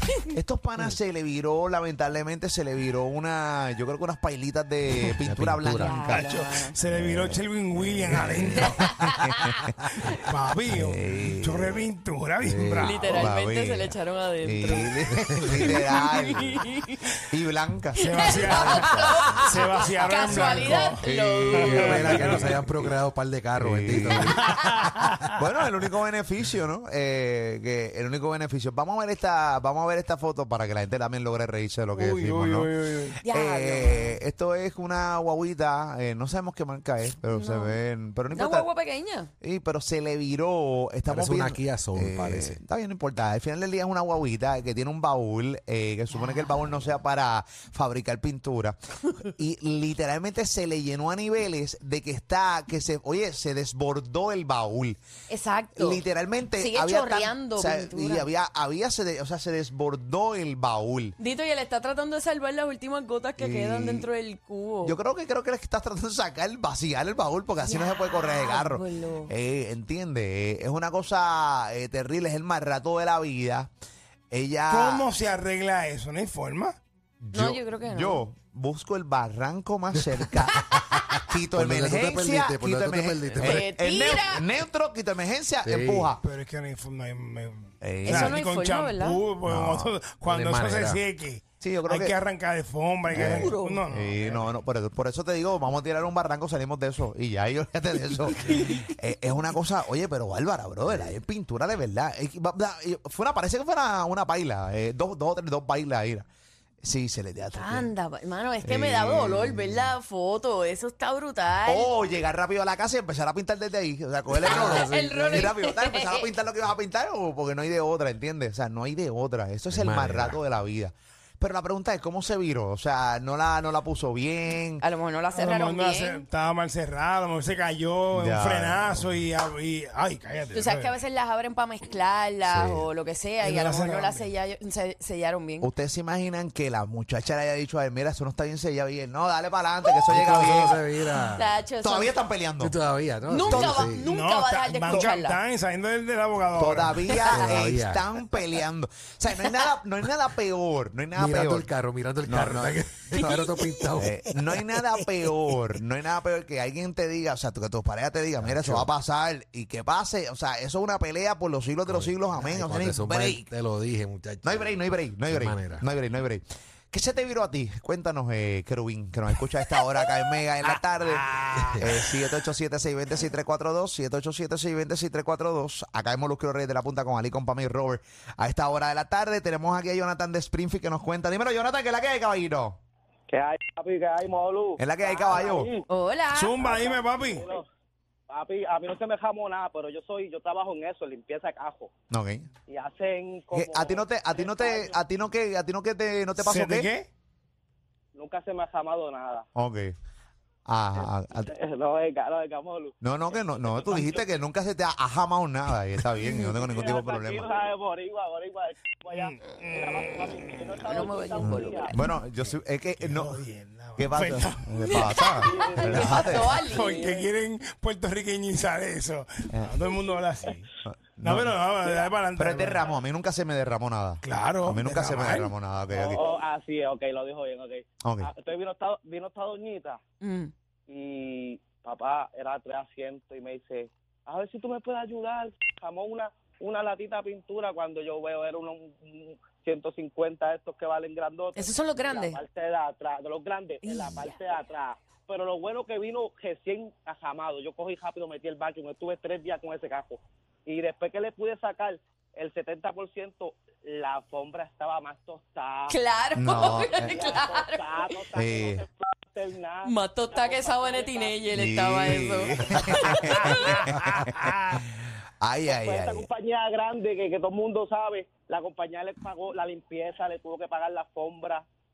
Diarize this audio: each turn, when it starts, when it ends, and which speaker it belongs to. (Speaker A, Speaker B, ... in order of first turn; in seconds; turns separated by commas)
Speaker A: 0.3-6.2, Speaker B: 4.9-6.2, Speaker C: 5.8-6.7, Speaker D: 6.0-8.9, Speaker A: 7.8-8.7, Speaker C: 8.5-9.5, Speaker A: 9.4-9.7, Speaker D: 10.1-13.3, Speaker A: 10.7-11.8, Speaker B: 12.4-13.0, Speaker C: 12.8-15.0, Speaker A: 13.0-16.7, Speaker B: 15.0-15.7, Speaker C: 15.5-17.1, Speaker A: 17.3-19.4, Speaker C: 18.0-22.3, Speaker D: 18.0-22.5, Speaker A: 20.3-23.0, Speaker B: 21.7-24.9, Speaker A: 23.6-24.4, Speaker D: 24.1-25.3, Speaker A: 25.3-32.8, Speaker D: 31.9-33.2, Speaker C: 33.2-34.2, Speaker A: 33.3-38.7, Speaker C: 37.3-37.8, Speaker C: 38.3-39.3, Speaker A: 39.4-55.0, Speaker B: 41.1-42.6, Speaker C: 46.1-46.5, Speaker C: 55.3-56.0, Speaker A: 55.8-61.1, Speaker C: 56.6-58.3, Speaker C: 61.2-65.0, Speaker A: 63.4-64.1, Speaker A: 64.8-73.7, Speaker C: 67.6-69.3, Speaker A: 74.3-75.1, Speaker D: 74.7-76.8, Speaker A: 77.2-86.2, Speaker C: 77.3-78.2, Speaker B: 80.1-83.7, Speaker C: 83.4-84.4, Speaker B: 85.6-86.1, Speaker D: 86.2-94.5, Speaker A: 87.8-88.4, Speaker C: 88.0-89.2, Speaker A: 89.5-90.0, Speaker B: 90.2-91.0, Speaker A: 91.6-92.1, Speaker C: 93.1-93.8, Speaker A: 93.1-106.2, Speaker A: 106.8-107.9, Speaker C: 107.5-111.9, Speaker A: 108.6-109.9, Speaker A: 111.7-124.8, Speaker C: 114.3-116.3, Speaker B: 114.4-115.5, Speaker B: 119.7-120.4, Speaker C: 124.8-126.2, Speaker D: 125.3-130.9, Speaker A: 128.1-129.0, Speaker C: 130.5-135.7, Speaker B: 132.5-132.9, Speaker D: 133.4-134.3, Speaker A: 135.6-140.8, Speaker B: 140.1-141.5, Speaker C: 141.2-142.1, Speaker A: 141.8-142.7, Speaker B: 142.6-144.0, Speaker C: 143.3-145.4, Speaker A: 143.4-143.9, Speaker D: 144.0-147.1, Speaker A: 146.5-151.7, Speaker C: 147.2-147.5, Speaker B: 147.2-148.1, Speaker B: 151.2-154.3, Speaker A: 152.2-163.5, Speaker B: 158.4-158.9, Speaker B: 161.8-165.8, Speaker A: 164.4-182.8, Speaker B: 171.6-172.0, Speaker E: 183.3-185.8, Speaker A: 184.8-185.7, Speaker C: 185.9-186.6, Speaker D: 186.3-187.5, Speaker E: 186.6-187.7, Speaker E: 188.3-191.9, Speaker A: 192.1-192.5, Speaker E: 192.7-195.0, Speaker A: 193.5-196.9, Speaker D: 196.4-197.1, Speaker E: 198.2-199.4, Speaker A: 199.5-199.9, Speaker A: 200.7-201.5, Speaker E: 201.4-204.2, Speaker A: 203.0-207.5, Speaker C: 206.2-206.6, Speaker E: 206.6-211.9, Speaker D: 209.1-210.9, Speaker C: 210.9-211.9, Speaker A: 211.4-213.4, Speaker D: 213.0-215.2, Speaker A: 214.0-216.6, Speaker C: 214.9-216.9, Speaker E: 215.4-217.2, Speaker D: 216.6-220.7, Speaker A: 219.5-219.8, Speaker A: 220.9-221.6, Speaker D: 221.2-222.9, Speaker A: 222.3-226.2, Speaker D: 224.2-225.5, Speaker E: 225.9-230.0, Speaker A: 228.0-228.3, Speaker C: 230.2-230.5, Speaker E: 230.9-255.9, Speaker C: 241.5-242.4, Speaker C: 243.8-244.4, Speaker C: 255.9-258.2, Speaker A: 256.4-257.1, Speaker E: 257.0-261.4, Speaker A: 258.3-258.8, Speaker C: 259.8-263.8, Speaker A: 261.5-264.8, Speaker D: 263.2-264.8, Speaker A: 265.4-266.3, Speaker E: 265.6-271.6